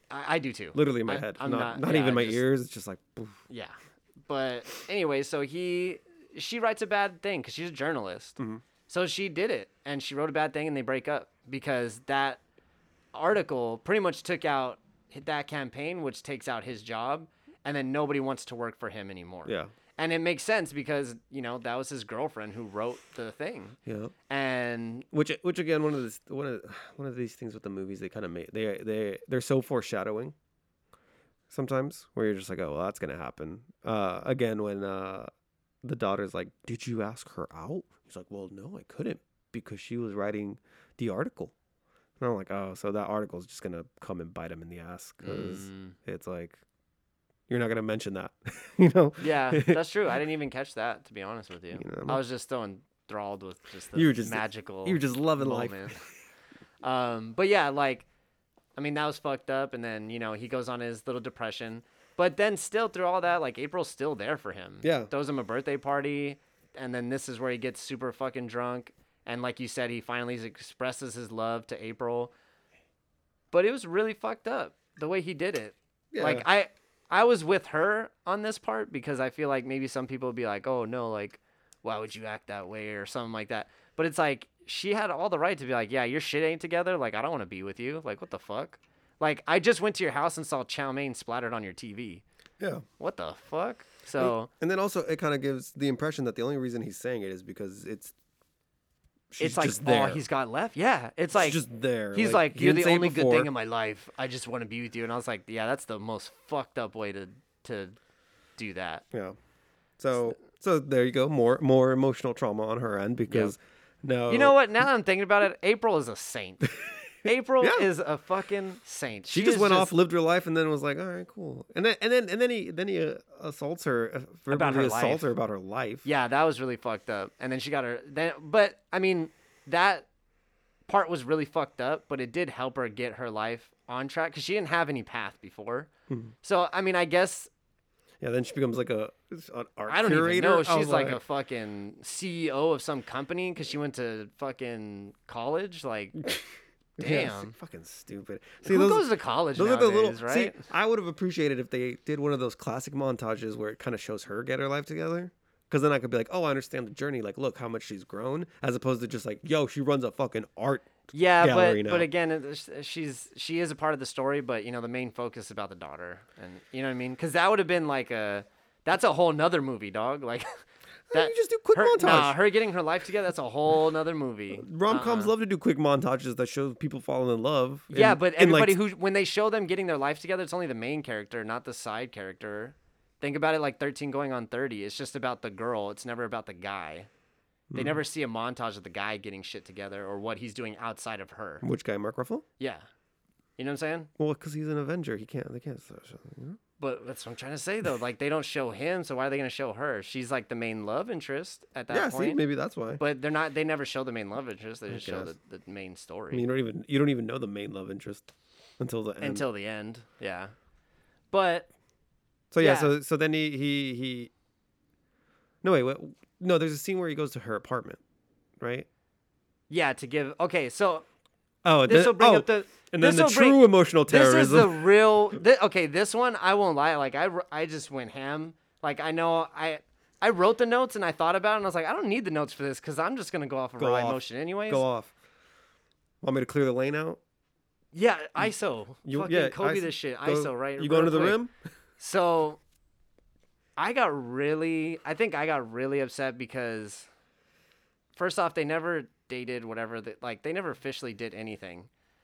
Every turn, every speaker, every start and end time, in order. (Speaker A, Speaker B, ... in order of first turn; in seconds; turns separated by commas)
Speaker A: 0.1-2.4, Speaker B: 0.7-3.4, Speaker A: 3.5-8.4, Speaker B: 8.4-8.6, Speaker A: 8.9-12.4, Speaker A: 13.1-23.8, Speaker B: 19.4-19.7, Speaker B: 23.9-24.1, Speaker A: 24.3-25.1, Speaker B: 25.1-30.3, Speaker B: 31.5-35.3, Speaker B: 35.8-41.5, Speaker B: 42.2-46.6, Speaker A: 45.2-46.0, Speaker B: 47.5-49.8, Speaker A: 49.2-56.0, Speaker B: 51.7-52.2, Speaker B: 53.9-56.1, Speaker A: 56.8-58.0, Speaker A: 58.8-72.3, Speaker B: 64.8-65.1, Speaker A: 73.5-92.2, Speaker B: 76.1-76.5, Speaker B: 92.6-92.8, Speaker A: 93.0-94.5, Speaker B: 94.2-98.1, Speaker B: 99.3-100.2, Speaker A: 99.4-101.6, Speaker B: 101.3-103.5, Speaker A: 102.1-108.0, Speaker A: 108.6-109.0, Speaker B: 110.0-114.6, Speaker A: 113.3-113.5, Speaker A: 114.3-116.6, Speaker B: 116.6-117.9, Speaker A: 117.2-119.9, Speaker B: 119.3-126.0, Speaker A: 124.5-125.3, Speaker A: 126.0-130.1, Speaker A: 130.9-135.9, Speaker B: 136.1-136.3, Speaker A: 136.4-137.5, Speaker B: 138.2-141.2, Speaker A: 139.9-146.2, Speaker B: 147.0-162.1, Speaker A: 147.0-147.5, Speaker A: 148.6-150.6, Speaker A: 161.1-170.5, Speaker B: 171.1-172.4, Speaker A: 171.1-175.3, Speaker B: 174.5-178.8, Speaker A: 177.9-187.1, Speaker B: 187.7-188.0, Speaker A: 187.7-191.6, Speaker B: 191.6-192.4, Speaker A: 192.6-192.8, Speaker A: 193.6-194.1, Speaker B: 194.2-196.6, Speaker A: 196.8-202.4, Speaker B: 201.9-203.0, Speaker A: 203.0-206.4, Speaker B: 204.9-205.3, Speaker B: 206.3-209.4, Speaker A: 209.2-210.5, Speaker A: 211.3-211.7, Speaker B: 212.5-214.3, Speaker A: 212.6-212.9, Speaker B: 215.6-218.0, Speaker B: 218.6-218.9, Speaker A: 219.7-221.1, Speaker B: 221.6-224.9, Speaker A: 221.8-234.8, Speaker B: 233.8-235.1, Speaker B: 236.2-237.2, Speaker A: 237.9-241.4, Speaker B: 239.0-241.5, Speaker A: 242.0-242.6, Speaker A: 243.8-247.1, Speaker A: 248.2-251.9